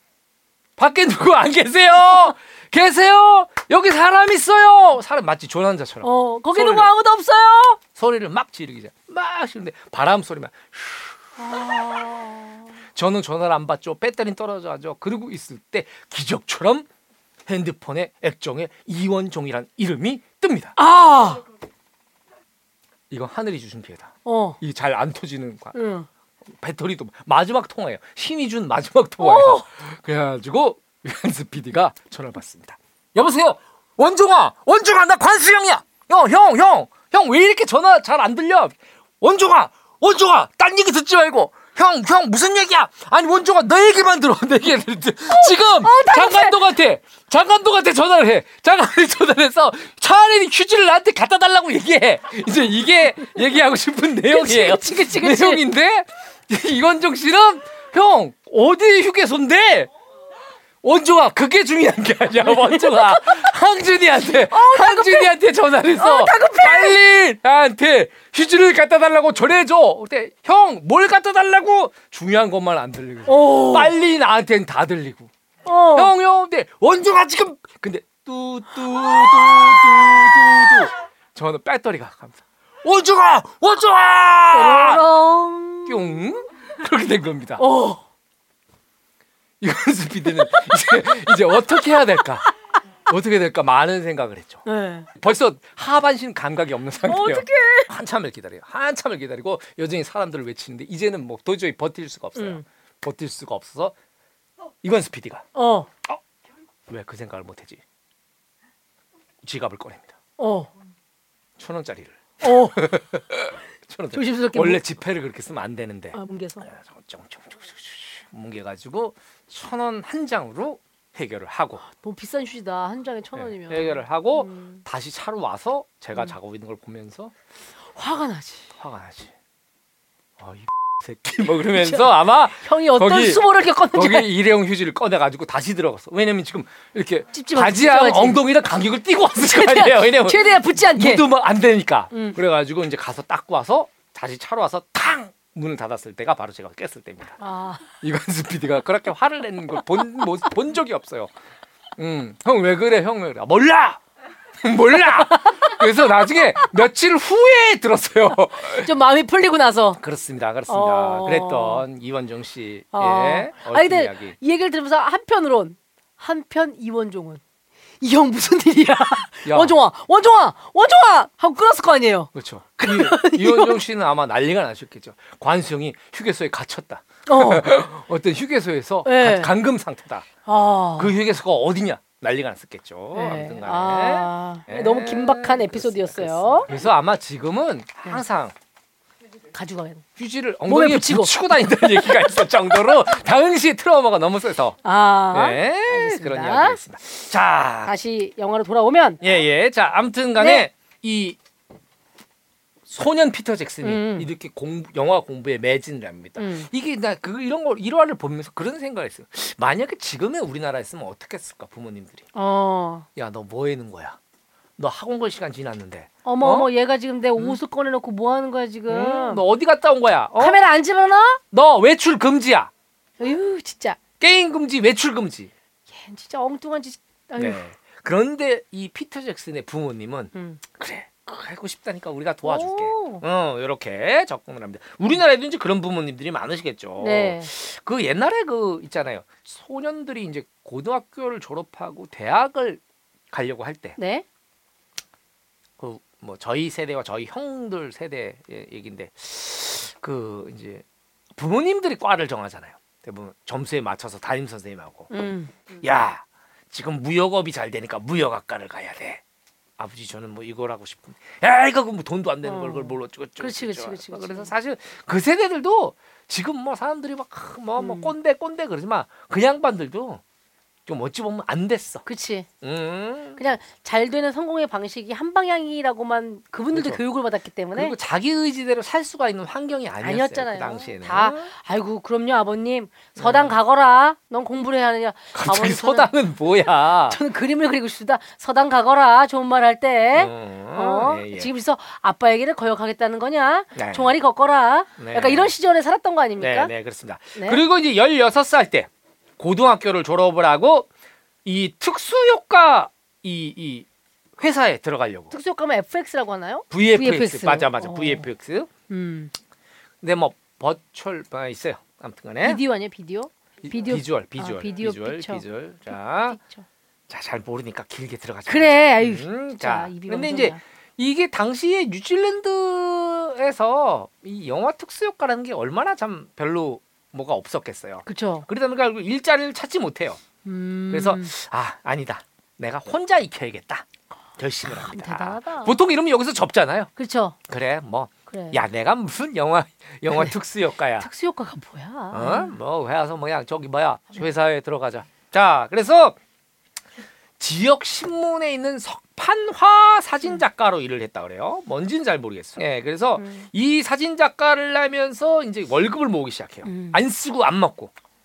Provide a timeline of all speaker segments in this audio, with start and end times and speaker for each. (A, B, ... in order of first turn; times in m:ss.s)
0:00.8-0:06.9 A
0:06.0-0:07.8 B
0:07.9-0:11.2 A
0:11.4-0:12.7 B
0:12.9-0:16.9 A
0:17.5-0:20.8 A
0:20.8-0:21.4 B
0:23.1-0:25.7 A
0:24.2-0:24.6 B
0:25.7-0:26.1 B
0:26.5-0:59.9 A
0:29.2-0:29.6 B
0:45.3-0:46.6 B
0:54.3-0:55.6 B
1:00.8-1:15.3 A
1:02.4-1:03.5 B
1:04.4-1:05.3 B
1:05.9-1:07.0 B
1:13.2-1:13.9 B
1:15.6-1:16.1 B
1:15.9-1:25.0 A
1:24.5-1:26.2 B
1:25.9-1:27.6 A
1:27.6-1:28.0 B
1:29.6-1:32.4 A
1:30.3-1:32.5 B
1:33.1-1:34.6 A
1:34.6-1:35.1 B
1:35.1-1:43.9 A
1:37.0-1:37.9 B
1:42.4-1:42.6 B
1:44.8-1:45.4 A
1:45.5-1:45.9 B
1:46.9-1:47.8 A
1:49.4-1:50.1 A
1:50.4-1:50.7 B
1:51.6-2:01.8 A
1:52.4-1:52.8 B
1:54.1-1:54.8 B
1:56.1-1:56.7 B
2:01.9-2:04.8 B
2:03.4-2:07.3 A
2:07.9-2:08.7 B
2:08.8-2:09.3 A
2:10.4-2:27.4 A
2:11.7-2:14.3 B
2:17.3-2:18.4 B
2:19.4-2:21.2 B
2:22.1-2:22.4 B
2:27.4-2:27.8 B
2:28.0-2:31.3 A
2:32.0-2:34.0 A
2:34.6-2:38.9 A
2:35.0-2:35.9 B
2:38.6-2:40.0 B
2:40.0-2:44.4 A
2:40.7-2:41.8 B
2:42.9-2:47.4 B
2:48.0-2:52.3 B
2:49.4-2:49.8 A
2:52.3-3:00.3 A
2:52.8-2:53.8 B
2:57.3-2:57.8 B
2:59.0-2:59.5 B
3:00.4-3:01.1 B
3:01.0-3:08.5 A
3:03.1-3:06.7 B
3:09.5-3:10.0 B
3:10.2-3:14.8 A
3:10.7-3:12.5 B
3:14.8-3:16.8 B
3:15.3-3:17.9 A
3:17.8-3:19.2 B
3:19.2-3:21.4 A
3:20.4-3:20.7 B
3:22.9-3:32.2 A
3:23.8-3:24.3 B
3:26.4-3:26.7 B
3:32.3-3:33.0 B
3:33.2-3:34.2 A
3:34.8-3:36.7 A
3:36.2-3:39.4 B
3:38.9-3:40.6 A
3:40.4-3:41.4 B
3:41.5-3:42.7 A
3:43.2-3:44.0 B
3:44.2-3:45.5 A
3:45.9-3:47.6 B
3:47.4-4:04.0 A
3:50.3-3:50.6 B
3:52.4-3:53.2 B
3:57.0-3:57.5 B
4:04.0-4:04.2 B
4:05.8-4:10.8 A
4:11.4-4:15.1 A
4:15.1-4:15.8 B
4:15.8-4:19.2 A
4:19.8-4:30.2 A
4:22.4-4:24.5 B
4:27.8-4:28.1 B
4:30.9-4:32.0 A
4:32.0-4:32.5 B
4:32.6-4:33.4 A
4:33.4-4:38.0 B
4:36.7-4:37.0 A
4:37.7-4:41.5 A
4:40.0-4:46.1 B
4:43.2-4:43.6 A
4:45.3-4:47.2 A
4:47.1-4:56.7 B
4:50.1-4:51.5 A
4:53.7-4:54.1 A
4:55.0-4:55.5 A
4:56.4-5:00.9 A
4:57.3-4:57.6 B
5:01.4-5:03.8 A
5:04.4-5:05.3 A
5:05.3-5:08.3 B
5:06.7-5:08.7 A
5:08.9-5:09.3 B
5:10.0-5:12.6 A
5:12.4-5:15.4 B
5:13.6-5:16.4 A
5:16.3-5:16.6 B
5:17.1-5:30.2 A
5:18.5-5:20.6 B
5:28.0-5:28.5 B
5:30.4-5:31.3 B
5:30.9-5:33.8 A
5:34.4-5:36.9 A
5:34.6-5:35.7 B
5:37.0-5:37.4 B
5:37.5-5:41.1 A
5:38.3-5:38.6 B
5:41.0-5:42.5 B
5:42.1-5:46.2 A
5:47.4-5:57.9 A
5:53.2-5:53.5 B
5:56.6-5:57.0 B